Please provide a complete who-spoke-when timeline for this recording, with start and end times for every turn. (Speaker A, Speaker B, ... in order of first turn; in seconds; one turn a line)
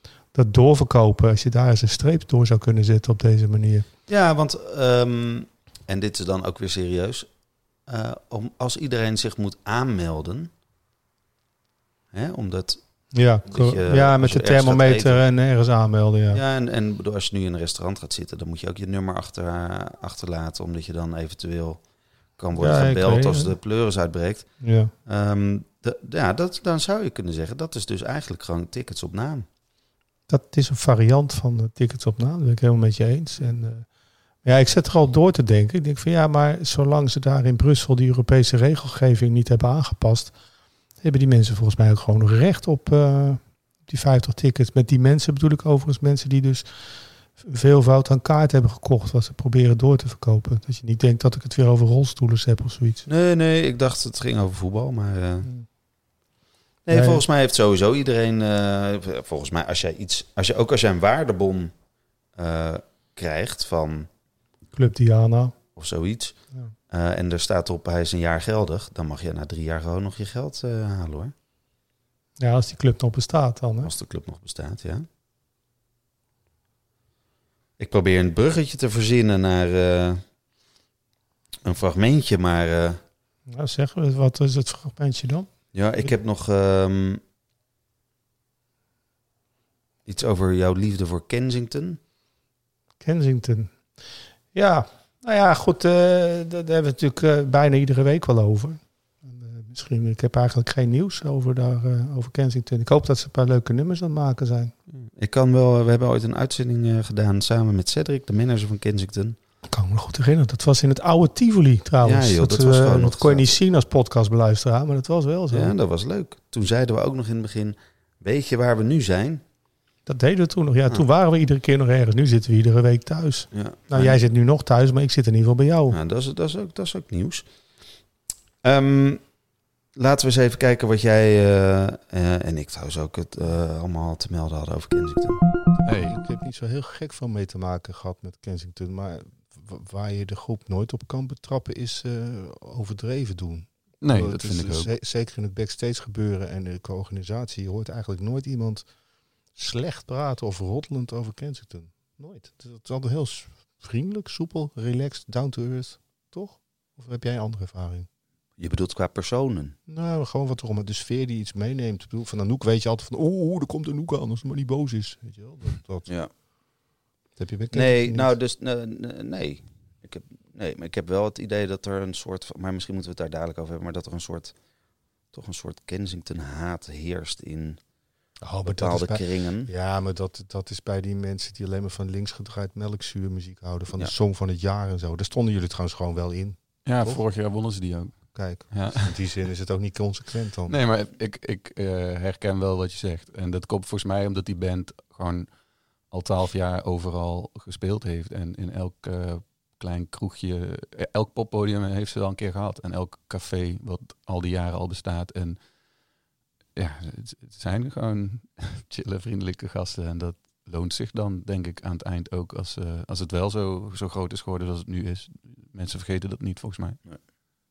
Speaker A: 0.3-3.9
Speaker B: 4.1-7.3
Speaker B: 7.9-10.5
Speaker B: 12.1-12.8
Speaker A: 13.1-16.4
Speaker B: 13.5-15.2
Speaker B: 16.3-21.8
Speaker B: 22.4-24.5
Speaker A: 22.6-23.5
Speaker A: 24.6-24.9
Speaker B: 25.1-29.5
Speaker A: 30.3-33.9
Speaker A: 34.4-40.3
Speaker A: 41.0-46.7
Speaker A: 47.4-53.1
Speaker B: 53.1-55.5
Speaker B: 56.9-61.7
Speaker A: 56.9-57.2
Speaker B: 62.4-64.1
Speaker A: 64.7-65.5
Speaker B: 65.8-66.4
Speaker B: 66.9-71.3
Speaker A: 72.4-73.9
Speaker B: 73.8-75.1
Speaker B: 77.8-80.2
Speaker B: 81.6-83.0
Speaker A: 83.5-85.5
Speaker B: 85.7-87.2
Speaker B: 90.1-92.0
Speaker A: 93.0-93.7
Speaker A: 94.5-104.7
Speaker B: 105.2-109.4
Speaker A: 109.7-115.7
Speaker B: 112.0-113.5
Speaker B: 115.5-119.4
Speaker A: 120.1-126.0
Speaker B: 123.5-124.2
Speaker B: 125.9-127.5
Speaker B: 128.6-129.2
Speaker B: 129.9-135.4
Speaker C: 135.8-136.2
Speaker A: 136.0-148.9
Speaker C: 144.0-144.9
Speaker A: 149.6-158.1
Speaker B: 158.6-159.8
Speaker A: 159.9-166.1
Speaker A: 167.4-168.3
Speaker B: 167.7-174.5
Speaker B: 175.3-177.8
Speaker A: 178.4-187.2
Speaker B: 178.7-179.7
Speaker C: 186.8-189.1
Speaker A: 188.3-190.8
Speaker C: 190.7-205.6
Speaker C: 206.8-217.0